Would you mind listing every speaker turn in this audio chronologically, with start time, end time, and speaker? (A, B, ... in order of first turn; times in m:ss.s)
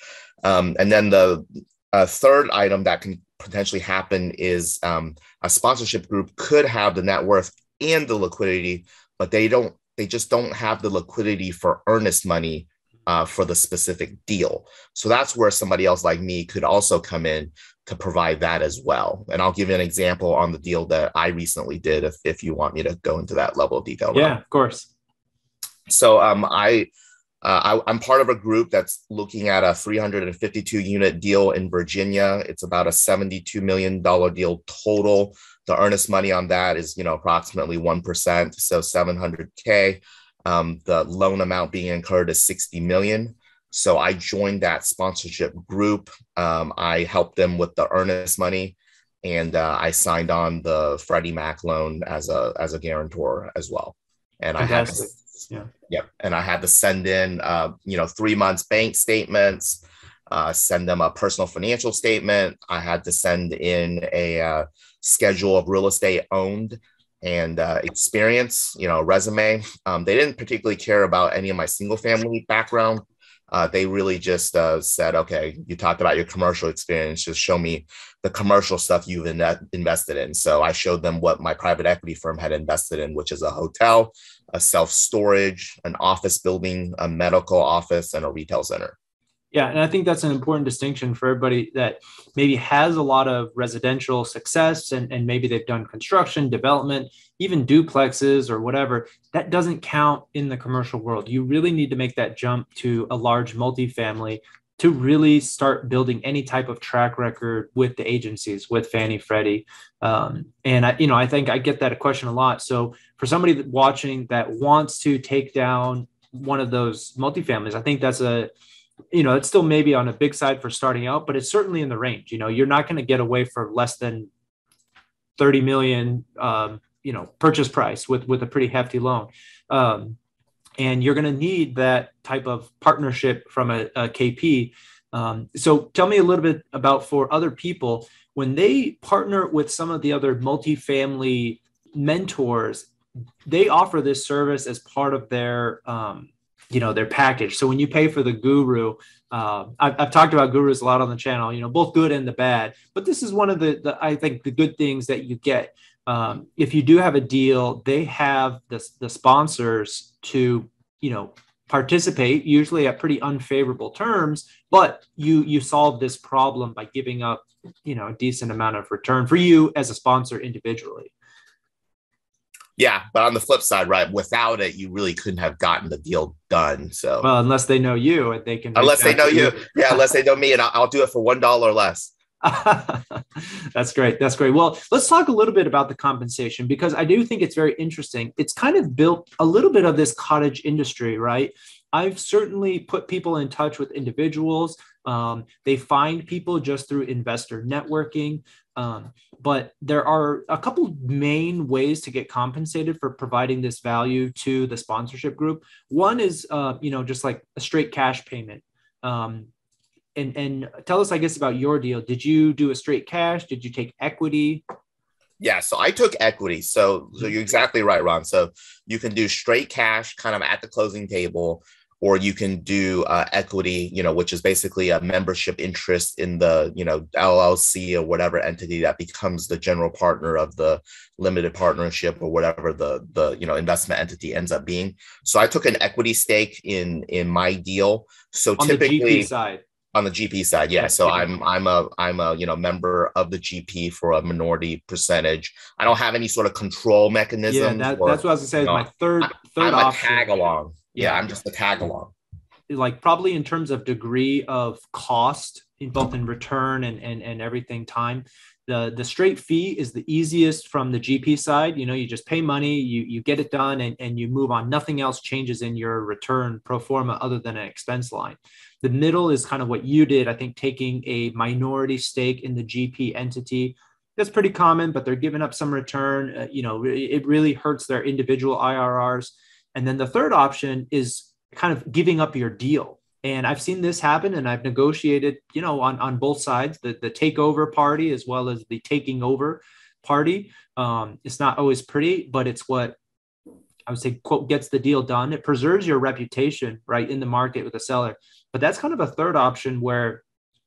0:00.4-0:24.4 A
0:24.1-0:24.9 B
0:25.9-0:26.9 A
0:27.4-0:55.1 A
0:54.6-0:55.7 B
0:55.9-1:28.9 A
1:29.5-1:58.5 B
1:59.1-2:04.3 B
2:05.4-2:10.2 B
2:10.8-2:22.9 B
2:23.4-2:51.1 B
2:52.8-2:57.3 A
2:57.2-3:00.0 B
2:58.8-3:02.1 A
3:02.4-3:29.5 B
3:30.2-3:34.6 B
3:35.4-3:59.3 A
3:58.6-3:59.6 B
3:59.9-4:12.1 A
4:00.8-4:01.3 B
4:07.5-4:10.4 B
4:10.9-4:11.2 B
4:12.7-4:53.0 B
4:53.9-5:00.2 B